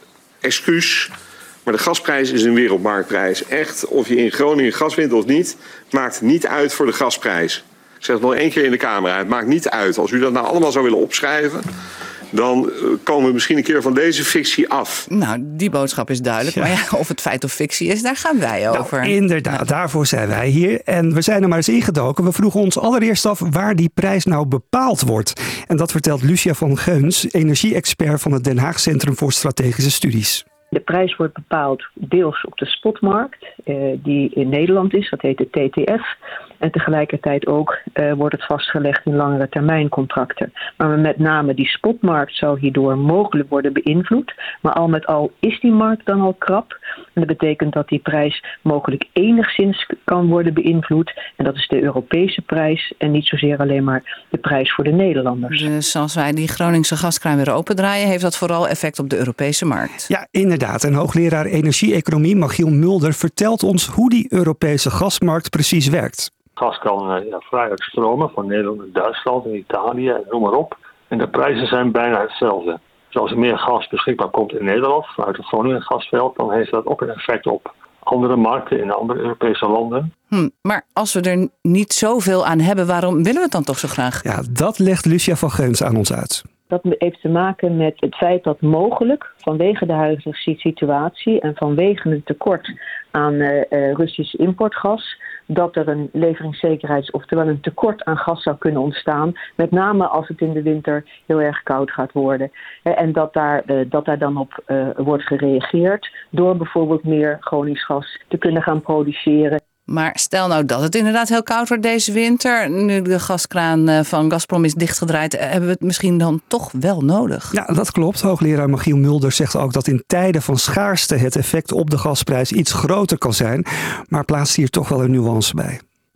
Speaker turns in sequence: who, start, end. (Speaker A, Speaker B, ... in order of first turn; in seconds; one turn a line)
Speaker A: 0.4-1.1
Speaker A: 1.7-11.7
Speaker A: 12.3-15.1
Speaker B: 15.1-19.6
Speaker C: 16.4-16.8
Speaker C: 18.7-30.4
Speaker D: 30.7-36.0
Speaker D: 36.6-55.7
Speaker B: 55.5-60.1
Speaker C: 60.1-66.3
Speaker E: 66.6-80.1
Speaker B: 80.3-84.2
Speaker C: 84.2-86.4
Speaker D: 86.7-109.6
Speaker B: 109.9-117.5
Speaker C: 117.5-125.8